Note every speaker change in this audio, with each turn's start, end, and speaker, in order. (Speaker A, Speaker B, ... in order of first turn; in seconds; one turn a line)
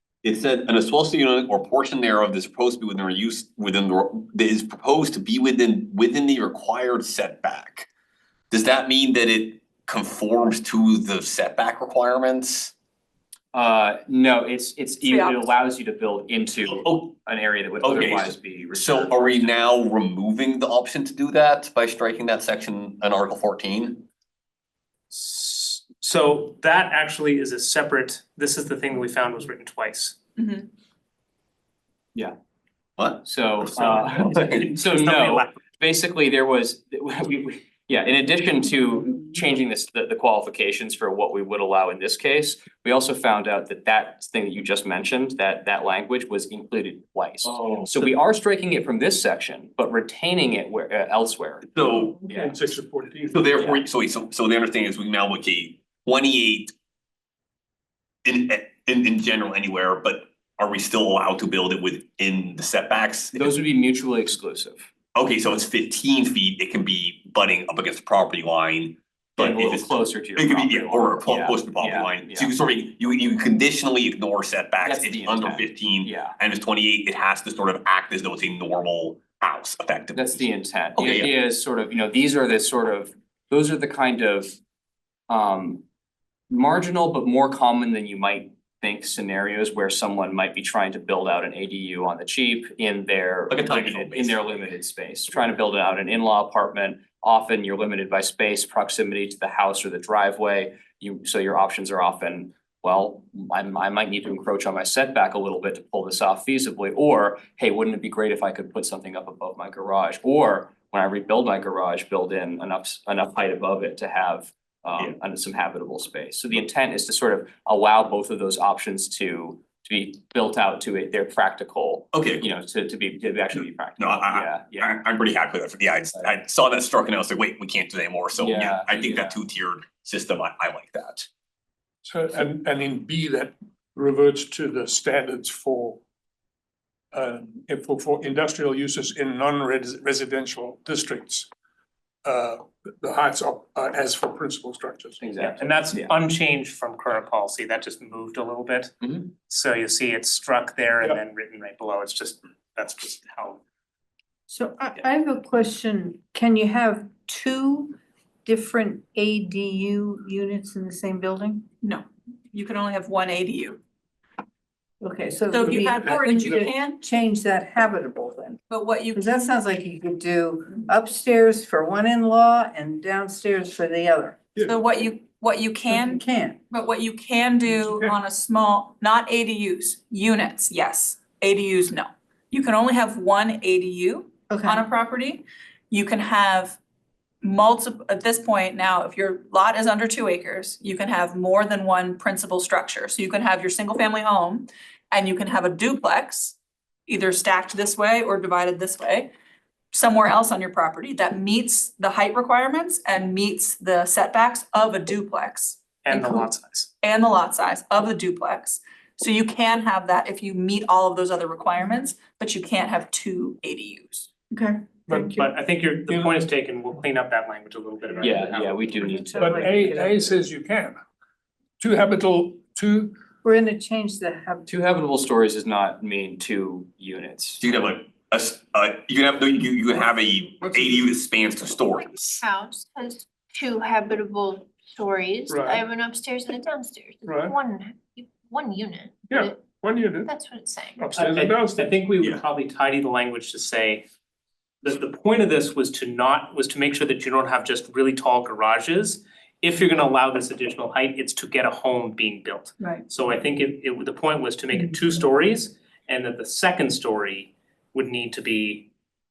Speaker A: 0.2-7.9
Speaker A: 8.5-12.7
Speaker B: 13.5-19.6
Speaker C: 15.0-15.5
Speaker A: 16.7-17.2
Speaker A: 17.8-24.1
Speaker D: 25.1-30.1
Speaker C: 30.4-30.7
Speaker A: 33.0-34.7
Speaker B: 33.2-51.7
Speaker D: 33.8-35.5
Speaker A: 51.8-52.2
Speaker E: 51.8-53.6
Speaker B: 52.3-52.6
Speaker A: 53.3-56.7
Speaker A: 58.2-63.6
Speaker B: 63.3-64.8
Speaker A: 65.1-81.3
Speaker B: 69.4-72.5
Speaker B: 74.8-76.3
Speaker B: 80.1-84.5
Speaker B: 85.3-85.8
Speaker B: 86.5-125.0
Speaker A: 93.5-94.4
Speaker A: 122.1-122.5
Speaker A: 124.0-131.3
Speaker B: 128.4-129.4
Speaker E: 132.0-136.0
Speaker E: 137.1-141.5
Speaker E: 142.2-145.2
Speaker B: 145.2-146.1
Speaker D: 145.4-153.6
Speaker F: 154.5-161.7
Speaker C: 161.8-163.8
Speaker F: 165.0-168.6
Speaker C: 165.5-167.0
Speaker E: 165.9-166.7
Speaker C: 168.7-169.4
Speaker F: 169.1-174.5
Speaker C: 174.6-186.8
Speaker F: 175.8-176.6
Speaker E: 177.7-178.2
Speaker F: 184.5-184.8
Speaker C: 187.4-196.6
Speaker C: 197.1-199.3
Speaker C: 199.9-206.5
Speaker D: 206.0-206.9
Speaker C: 207.0-215.4
Speaker E: 215.1-215.4
Speaker D: 215.1-219.2
Speaker B: 218.2-219.9
Speaker F: 218.9-220.4
Speaker E: 219.4-221.0
Speaker E: 221.8-223.2
Speaker F: 223.4-224.6
Speaker B: 224.7-227.6
Speaker A: 227.6-232.4
Speaker E: 230.7-230.9
Speaker G: 232.4-239.6
Speaker E: 235.5-235.9
Speaker E: 237.2-237.6
Speaker E: 239.3-240.3
Speaker G: 240.2-241.0
Speaker E: 241.0-242.0
Speaker D: 241.1-244.1
Speaker D: 244.8-258.9